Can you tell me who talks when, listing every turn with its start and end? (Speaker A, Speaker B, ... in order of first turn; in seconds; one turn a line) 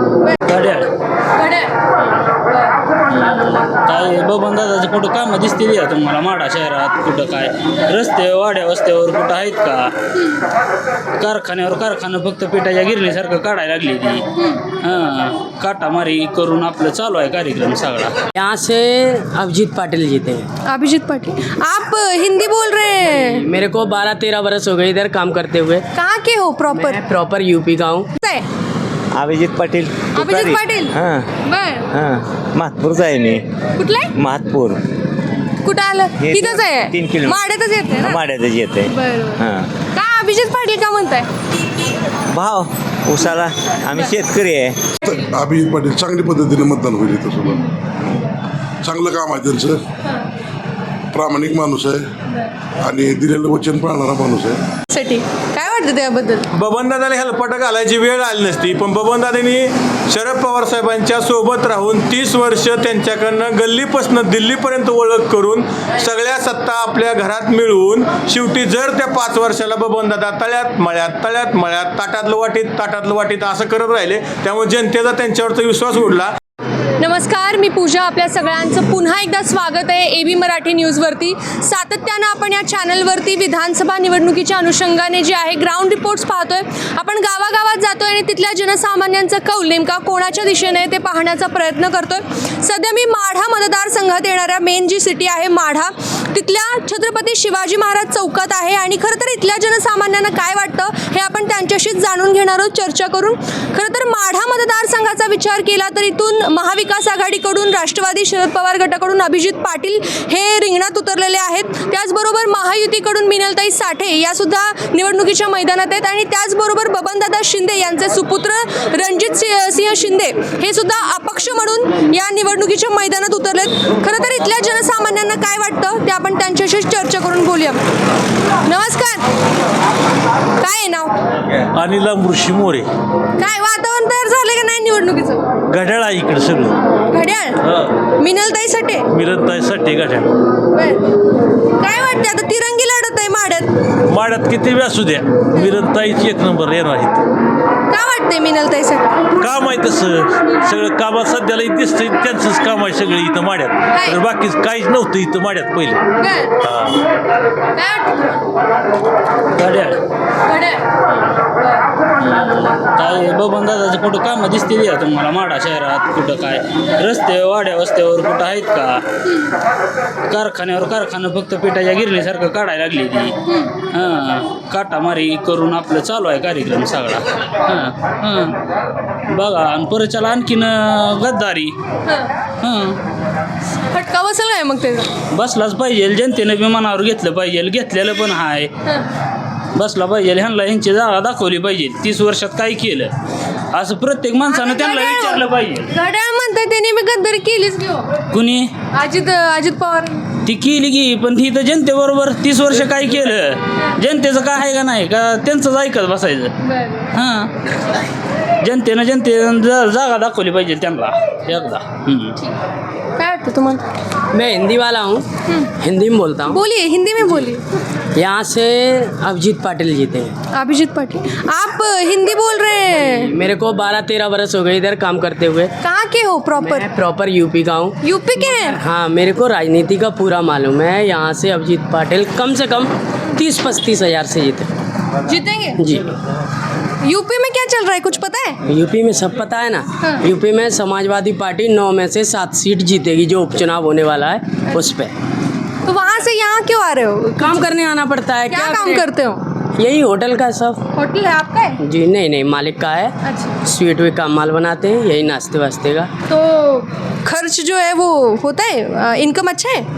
Speaker A: 0.5-0.9
Speaker B: 1.4-1.7
Speaker A: 3.1-9.9
Speaker A: 11.2-14.2
Speaker B: 14.3-14.6
Speaker A: 14.8-18.1
Speaker C: 18.4-20.4
Speaker B: 20.6-23.4
Speaker C: 23.3-25.8
Speaker B: 25.9-27.0
Speaker C: 26.7-28.1
Speaker B: 28.2-28.4
Speaker D: 29.1-31.2
Speaker B: 30.1-31.9
Speaker D: 31.9-33.4
Speaker B: 33.8-34.1
Speaker D: 34.1-34.8
Speaker B: 35.6-38.2
Speaker D: 36.2-39.6
Speaker B: 38.9-41.3
Speaker D: 42.3-44.8
Speaker E: 45.0-47.6
Speaker E: 48.8-49.8
Speaker E: 51.1-52.0
Speaker E: 52.8-54.6
Speaker B: 54.9-56.4
Speaker F: 56.5-76.3
Speaker B: 77.0-127.8
Speaker B: 128.7-129.2
Speaker B: 130.6-131.1
Speaker G: 131.7-132.9
Speaker B: 133.4-135.4
Speaker G: 135.7-136.8
Speaker B: 137.1-137.6
Speaker G: 137.6-137.9
Speaker B: 138.2-139.1
Speaker G: 139.1-140.3
Speaker B: 140.7-141.1
Speaker B: 141.8-143.7
Speaker G: 144.1-147.2
Speaker B: 147.9-149.1
Speaker G: 149.4-156.0
Speaker B: 153.9-154.2
Speaker B: 156.2-156.5
Speaker G: 156.6-156.9
Speaker B: 157.7-158.3
Speaker A: 159.6-160.0
Speaker B: 160.5-160.8
Speaker A: 162.2-169.0
Speaker A: 170.3-173.3
Speaker B: 173.5-173.7
Speaker A: 173.9-178.6
Speaker A: 179.3-181.7
Speaker A: 182.6-183.0
Speaker B: 183.9-185.1
Speaker A: 185.3-188.7
Speaker A: 189.8-193.1
Speaker A: 193.7-195.9
Speaker B: 194.5-198.1
Speaker A: 198.3-198.7
Speaker B: 198.9-200.2
Speaker A: 200.4-206.5
Speaker B: 206.6-207.1
Speaker A: 207.1-207.5
Speaker A: 208.6-212.4
Speaker B: 213.2-213.8
Speaker C: 214.3-215.2
Speaker C: 215.8-216.6
Speaker B: 216.5-217.6
Speaker C: 218.2-220.3
Speaker B: 220.5-223.3
Speaker C: 223.2-225.7
Speaker B: 225.8-226.8
Speaker C: 226.6-234.7
Speaker B: 228.0-228.8
Speaker B: 235.3-235.8
Speaker C: 235.8-236.0
Speaker B: 237.0-238.6
Speaker C: 238.7-245.1
Speaker B: 245.8-247.7
Speaker C: 247.4-249.1
Speaker B: 248.5-249.4
Speaker C: 249.8-250.8
Speaker B: 250.9-251.8
Speaker C: 251.8-256.1
Speaker B: 253.2-253.5
Speaker B: 256.3-259.9